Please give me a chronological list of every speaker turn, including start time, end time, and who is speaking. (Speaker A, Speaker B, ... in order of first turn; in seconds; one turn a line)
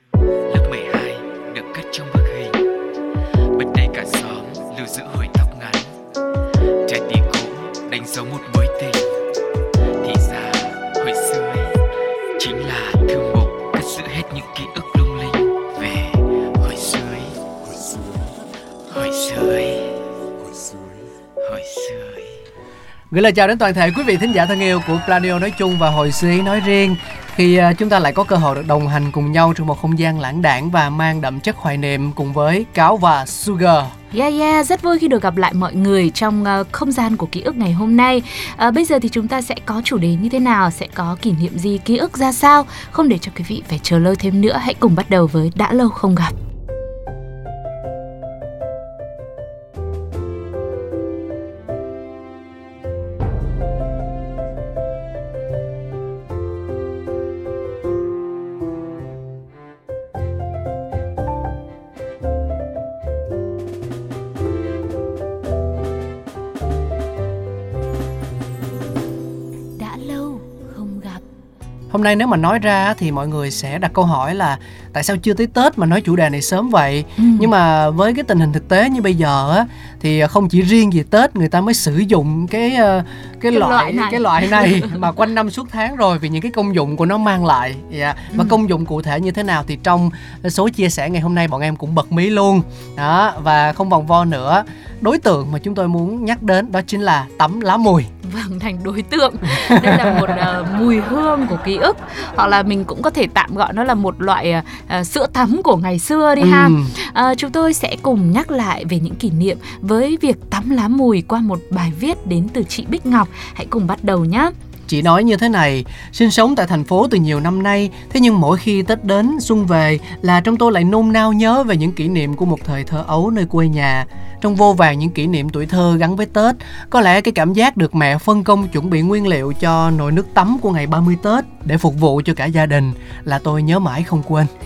Speaker A: 0.5-2.6
Speaker A: 3.5-5.9
Speaker A: 6.8-9.1
Speaker A: 10.0-11.7
Speaker A: 12.4-17.4
Speaker A: 18.9-20.0
Speaker A: 21.4-22.3
Speaker B: 23.1-33.9
Speaker C: 34.1-46.3
Speaker C: 69.8-71.2
Speaker B: 71.9-98.1
Speaker C: 77.2-77.5
Speaker C: 83.5-85.0
Speaker C: 98.2-114.5
Speaker B: 99.8-100.3
Speaker B: 106.4-106.9
Speaker B: 114.9-134.5